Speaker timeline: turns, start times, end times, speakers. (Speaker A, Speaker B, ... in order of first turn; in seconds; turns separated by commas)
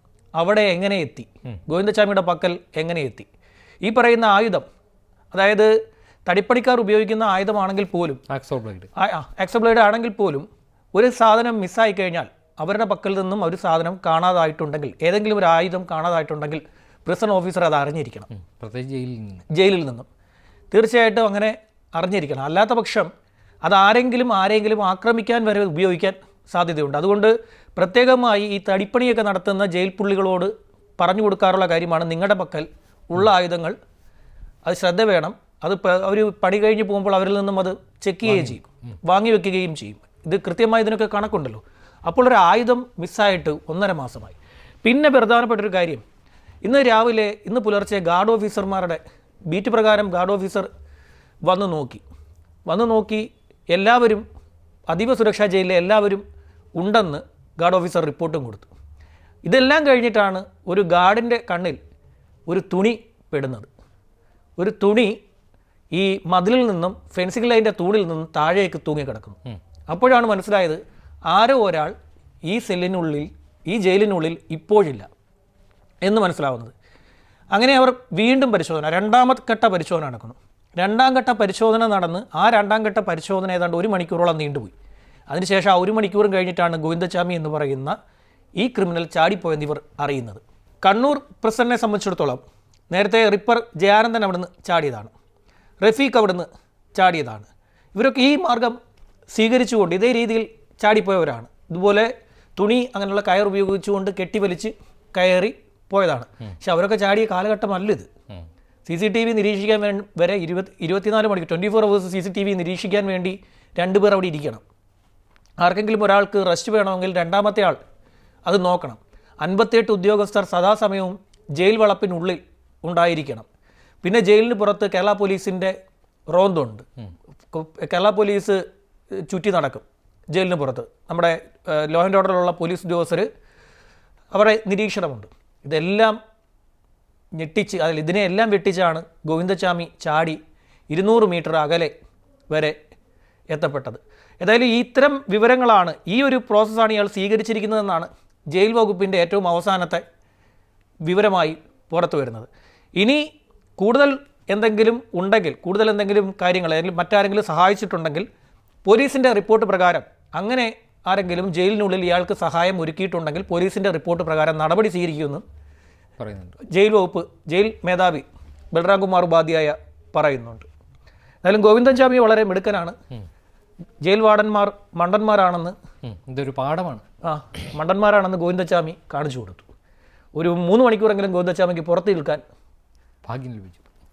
Speaker A: 0.4-3.3, Speaker A: 3.8-4.7, Speaker A: 5.3-5.7, Speaker A: 6.3-8.2, Speaker B: 8.3-8.9, Speaker A: 9.0-18.3, Speaker B: 18.3-19.4, Speaker A: 19.5-20.1, Speaker A: 20.7-23.1, Speaker A: 23.6-33.8, Speaker A: 34.6-46.0, Speaker A: 46.6-50.7, Speaker A: 51.5-52.0, Speaker A: 52.7-54.2, Speaker A: 54.9-56.2, Speaker A: 56.8-58.7, Speaker A: 59.5-61.8, Speaker A: 62.5-63.7, Speaker A: 64.6-65.2, Speaker A: 65.9-69.4, Speaker A: 69.9-71.9, Speaker A: 72.5-75.1, Speaker A: 76.0-76.7, Speaker A: 77.5-84.7, Speaker A: 85.3-88.0, Speaker A: 88.6-95.1, Speaker A: 95.8-98.8, Speaker A: 99.3-108.1, Speaker A: 108.9-114.6, Speaker A: 115.6-117.8, Speaker A: 118.5-123.5, Speaker A: 124.0-125.8, Speaker A: 126.3-126.9, Speaker A: 127.5-128.6, Speaker A: 129.3-133.3, Speaker A: 134.3-136.2, Speaker A: 137.4-140.4, Speaker A: 140.9-141.9, Speaker A: 142.5-142.8, Speaker A: 143.5-150.0, Speaker A: 151.1-153.2, Speaker A: 153.8-158.3, Speaker A: 158.9-165.4, Speaker B: 166.2-166.6, Speaker A: 166.7-170.7, Speaker A: 171.4-172.9, Speaker A: 174.0-175.8, Speaker B: 176.1-177.0, Speaker A: 177.2-179.7, Speaker A: 180.4-182.4, Speaker B: 183.3-183.8